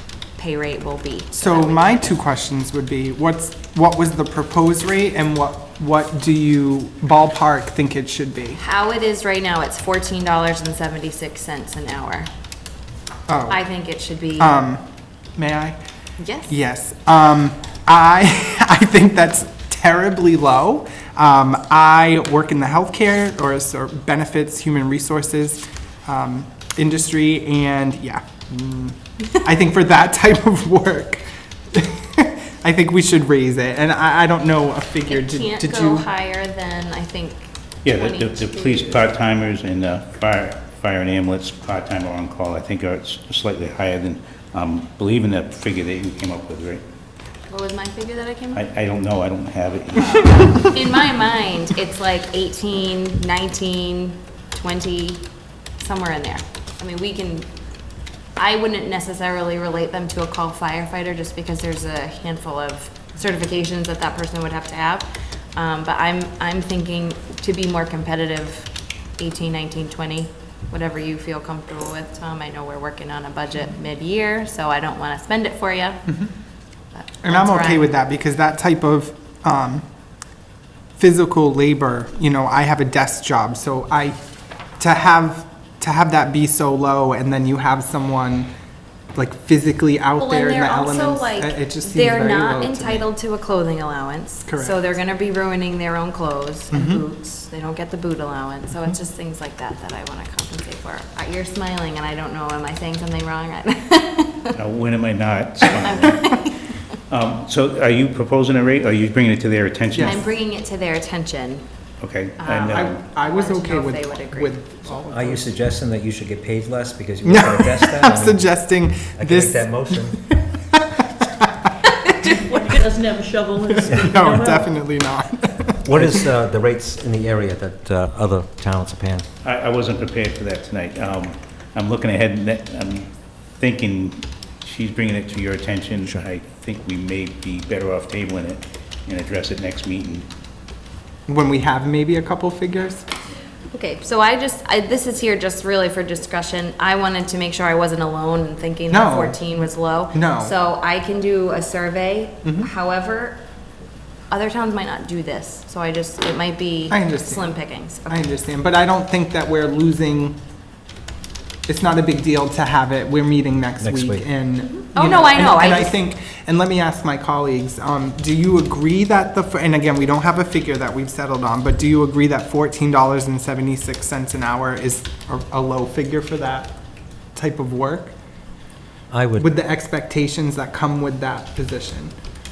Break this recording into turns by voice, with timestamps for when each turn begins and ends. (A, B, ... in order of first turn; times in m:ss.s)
0:00.4-0:02.1 A
0:01.4-0:08.6 B
0:08.6-0:12.3 A
0:13.3-0:13.6 B
0:13.5-0:14.7 A
0:14.4-0:14.8 B
0:15.4-0:15.8 B
0:16.2-0:16.6 A
0:16.5-0:36.1 B
0:35.1-0:39.1 A
0:37.8-0:46.8 C
0:47.5-0:48.6 A
0:48.5-0:51.0 C
0:50.0-0:55.2 A
0:55.8-0:57.5 A
0:58.4-1:16.1 A
1:16.9-1:17.9 A
1:17.2-1:19.8 B
1:21.0-1:24.2 B
1:24.8-1:28.5 B
1:29.2-1:33.1 B
1:30.2-1:44.5 A
1:34.5-1:34.8 B
1:36.7-1:37.0 B
1:44.5-1:46.3 C
1:45.6-1:46.7 A
1:47.1-1:50.3 C
1:50.0-1:51.6 A
1:52.0-1:53.0 C
1:52.4-1:54.6 A
1:52.6-1:55.5 B
1:55.1-2:00.2 D
1:57.2-2:00.8 B
2:01.4-2:02.3 B
2:02.3-2:04.7 E
2:03.7-2:06.3 B
2:05.8-2:09.3 D
2:09.4-2:20.3 C
2:21.3-2:23.0 B
2:23.7-2:33.4 A
2:28.9-2:30.5 B
2:32.4-2:32.7 B
2:34.3-2:38.3 A
2:36.9-2:37.5 B
2:38.1-2:40.4 B
2:41.7-2:56.8 B
2:43.8-2:44.3 D
2:44.6-2:46.0 A
2:57.3-2:58.2 B
2:59.1-2:59.5 D
2:59.4-3:02.1 B